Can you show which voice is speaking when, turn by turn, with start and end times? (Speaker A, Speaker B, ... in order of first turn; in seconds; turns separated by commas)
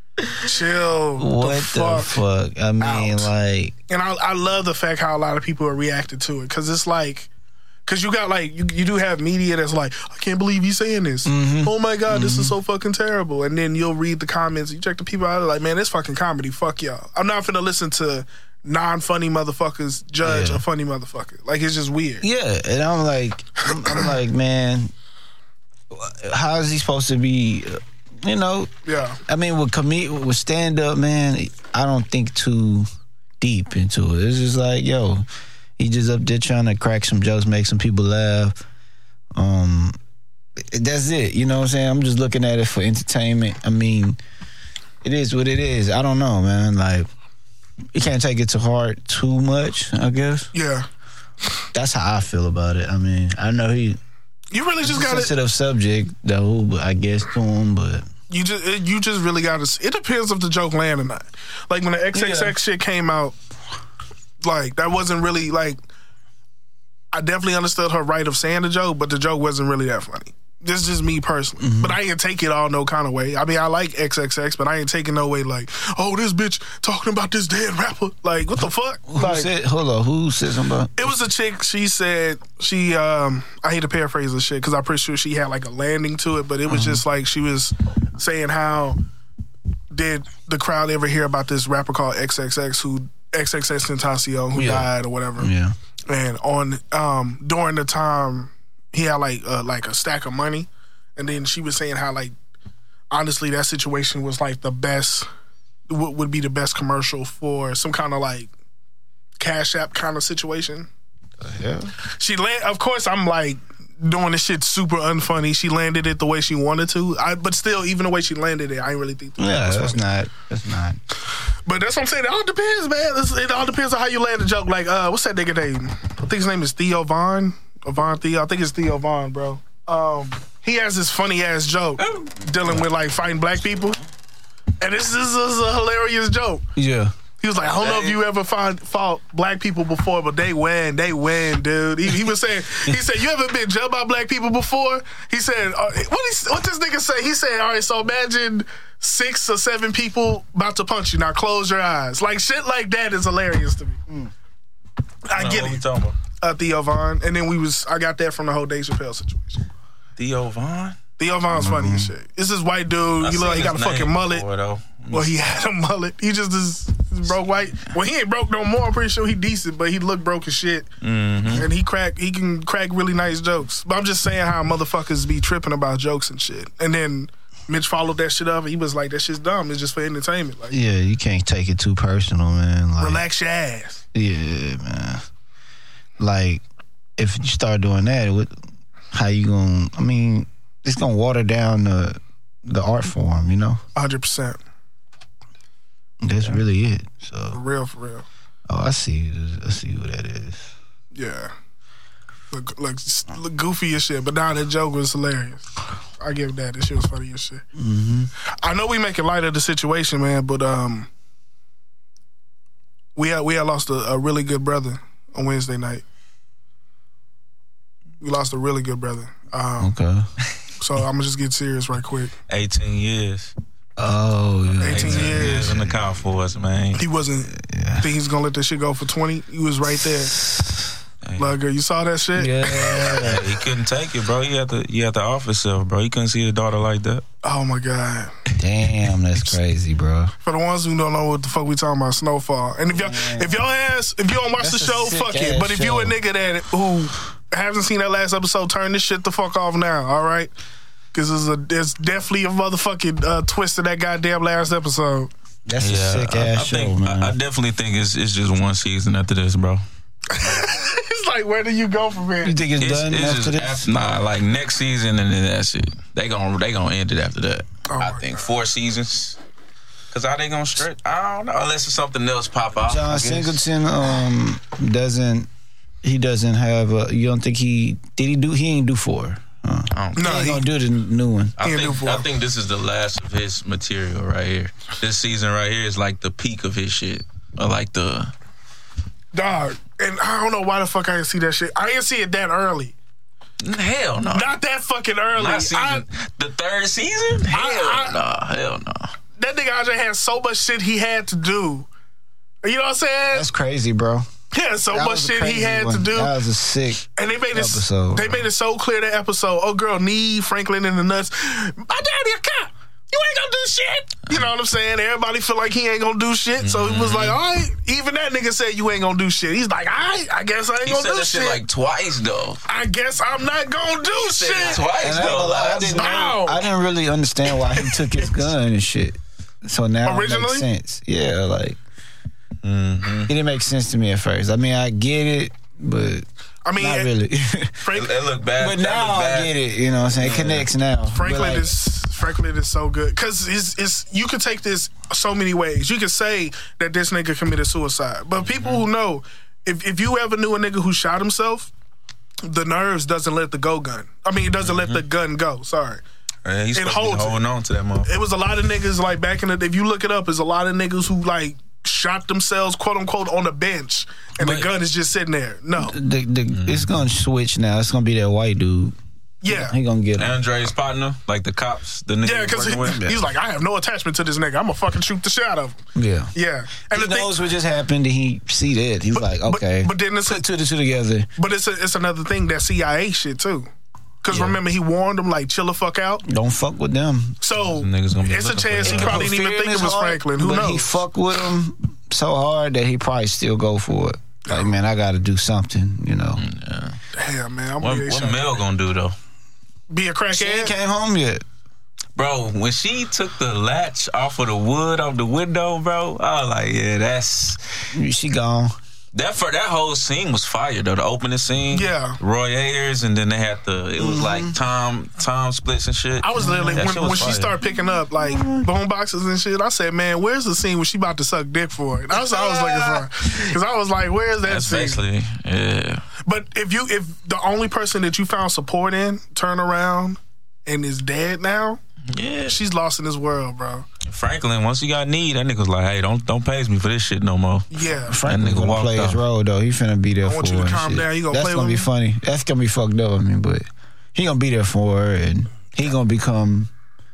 Speaker A: 0.4-2.2, Speaker B: 1.2-3.8, Speaker A: 2.8-3.3, Speaker A: 3.9-7.3, Speaker A: 7.9-22.2, Speaker B: 11.3-12.6, Speaker B: 20.2-20.6, Speaker B: 22.2-24.9, Speaker A: 23.8-24.1, Speaker B: 25.9-28.7, Speaker A: 28.9-29.2, Speaker B: 29.3-32.9, Speaker B: 33.4-35.3, Speaker B: 35.8-38.6, Speaker B: 39.4-40.0, Speaker B: 40.6-44.2, Speaker B: 45.0-47.1, Speaker B: 47.9-50.5, Speaker A: 50.5-50.9, Speaker B: 51.7-54.0, Speaker A: 54.5-55.3, Speaker B: 54.8-58.1, Speaker A: 58.3-63.4, Speaker B: 62.1-62.5, Speaker A: 64.4-65.8, Speaker A: 67.1-79.5, Speaker B: 71.6-72.0, Speaker B: 79.1-81.2, Speaker A: 81.0-89.0, Speaker B: 86.7-87.0, Speaker A: 89.9-95.5, Speaker B: 94.5-95.8, Speaker A: 96.1-102.3, Speaker A: 103.1-105.3, Speaker A: 105.9-108.5, Speaker A: 109.4-110.9, Speaker B: 111.4-111.9, Speaker A: 112.1-120.0, Speaker B: 119.4-121.0, Speaker A: 121.7-134.0, Speaker C: 132.0-132.3, Speaker A: 134.8-136.7, Speaker B: 136.8-137.1, Speaker A: 137.4-154.0, Speaker C: 137.6-138.2, Speaker A: 155.3-155.8, Speaker C: 155.3-156.2, Speaker A: 156.4-159.6, Speaker C: 160.2-161.0, Speaker A: 161.2-164.4, Speaker B: 161.5-162.1, Speaker C: 163.2-165.3, Speaker A: 165.1-170.9, Speaker C: 171.0-171.7, Speaker A: 171.5-180.8, Speaker B: 180.7-183.2, Speaker A: 183.0-184.0, Speaker B: 184.1-185.2, Speaker B: 186.2-186.6, Speaker B: 187.2-188.5, Speaker B: 189.1-193.8, Speaker A: 194.0-194.6, Speaker B: 196.2-197.6, Speaker A: 197.5-198.2, Speaker B: 198.7-200.7, Speaker A: 201.2-201.5, Speaker A: 202.5-207.6, Speaker B: 207.8-208.3, Speaker A: 208.5-211.1, Speaker A: 213.2-216.0, Speaker A: 218.2-219.9, Speaker B: 219.8-220.3, Speaker A: 220.8-222.3, Speaker C: 222.5-223.5, Speaker B: 224.0-226.1, Speaker A: 224.8-225.7, Speaker C: 224.9-227.0, Speaker A: 227.0-230.3, Speaker B: 227.5-228.1, Speaker B: 230.3-230.9, Speaker C: 231.2-231.6, Speaker A: 231.4-233.4, Speaker B: 232.4-233.5, Speaker C: 233.0-237.2, Speaker A: 237.4-238.3, Speaker B: 238.6-240.3, Speaker A: 240.4-250.5, Speaker B: 242.9-243.6, Speaker B: 244.6-246.2, Speaker A: 251.1-255.3, Speaker B: 255.7-257.4, Speaker C: 255.8-259.8, Speaker A: 260.3-262.6, Speaker B: 262.4-263.9, Speaker C: 262.8-269.4, Speaker A: 267.9-268.5, Speaker C: 270.1-273.6, Speaker B: 272.9-275.5, Speaker B: 276.0-281.6, Speaker C: 279.9-280.4, Speaker A: 280.2-280.6, Speaker C: 281.6-288.3, Speaker A: 281.6-282.3, Speaker A: 289.3-292.9, Speaker C: 293.6-294.5, Speaker A: 294.3-296.1, Speaker C: 295.4-299.1, Speaker A: 297.5-298.2, Speaker A: 299.4-301.9, Speaker A: 302.6-303.5, Speaker B: 303.3-304.3, Speaker A: 304.5-306.4, Speaker B: 304.9-308.4, Speaker A: 307.2-321.6, Speaker C: 316.6-317.4, Speaker C: 320.8-322.6, Speaker A: 322.7-326.6, Speaker C: 324.2-326.0, Speaker B: 324.7-331.8, Speaker A: 330.1-330.7, Speaker C: 332.6-333.3, Speaker B: 333.3-337.8, Speaker A: 336.6-337.1, Speaker A: 337.8-338.1, Speaker C: 337.9-339.5, Speaker B: 338.6-341.7, Speaker C: 340.1-340.7, Speaker A: 341.1-351.7, Speaker C: 348.4-348.9, Speaker A: 352.4-356.0, Speaker C: 354.6-355.0, Speaker C: 356.4-358.1, Speaker A: 356.8-357.4, Speaker A: 358.1-366.0, Speaker C: 364.4-364.7, Speaker B: 365.8-368.9, Speaker C: 366.5-366.9, Speaker A: 369.4-369.8, Speaker B: 369.5-370.4, Speaker C: 370.2-373.2, Speaker A: 372.2-375.8, Speaker B: 375.9-376.3, Speaker A: 376.3-377.3, Speaker B: 376.9-381.3, Speaker A: 379.1-380.4, Speaker A: 381.4-383.7, Speaker A: 384.2-386.2, Speaker B: 384.3-384.6, Speaker B: 386.2-387.4, Speaker A: 387.4-391.0, Speaker C: 387.6-389.3, Speaker B: 388.9-396.4, Speaker A: 394.5-394.7, Speaker C: 396.4-397.0, Speaker A: 397.1-398.6, Speaker C: 397.8-399.1, Speaker A: 399.9-400.8, Speaker B: 400.3-401.4, Speaker C: 402.2-407.6, Speaker B: 407.9-408.8, Speaker C: 409.1-417.6, Speaker A: 411.7-412.2, Speaker B: 414.0-414.6, Speaker A: 416.2-425.0, Speaker B: 416.4-416.9, Speaker B: 417.6-418.7, Speaker B: 422.1-423.6, Speaker C: 424.4-426.0, Speaker A: 426.3-431.8, Speaker C: 432.1-432.6, Speaker A: 432.5-433.9, Speaker C: 434.1-439.2, Speaker A: 437.7-438.2, Speaker B: 438.0-446.7, Speaker A: 440.2-441.9